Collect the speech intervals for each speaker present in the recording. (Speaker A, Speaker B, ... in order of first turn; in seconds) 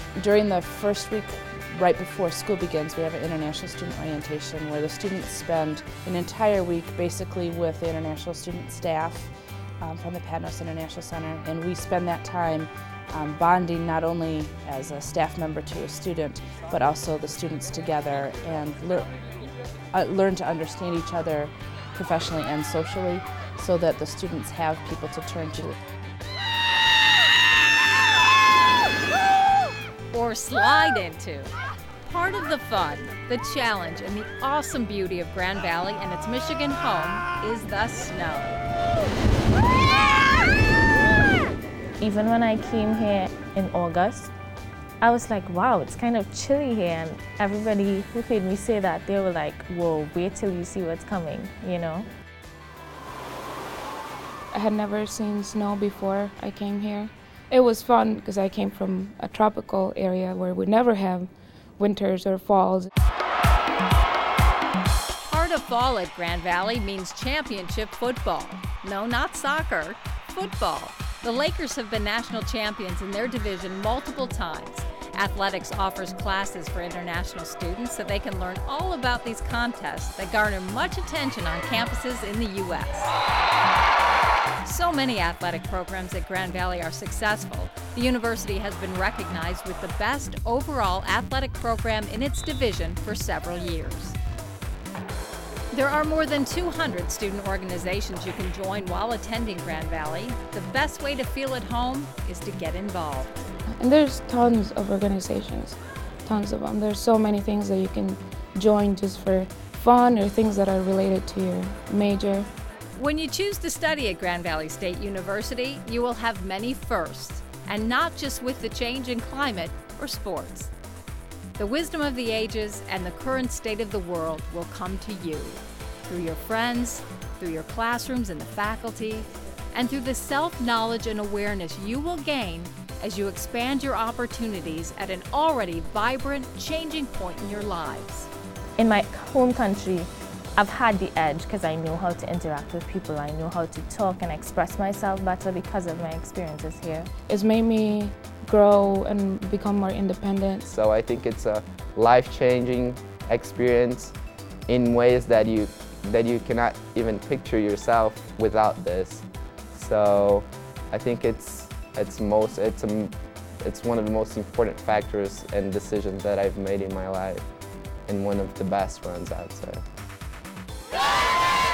Speaker A: 0.1-19.1, 19.9-25.8
Speaker B: 30.1-38.6, 65.2-83.1, 84.6-94.2, 95.7-103.4, 112.9-120.7, 121.6-138.3
Speaker C: 42.0-44.3, 45.0-52.1, 138.8-147.1
Speaker D: 54.5-62.9, 103.8-112.5, 147.3-150.7
Speaker E: 150.6-154.1, 154.7-167.5, 168.1-169.8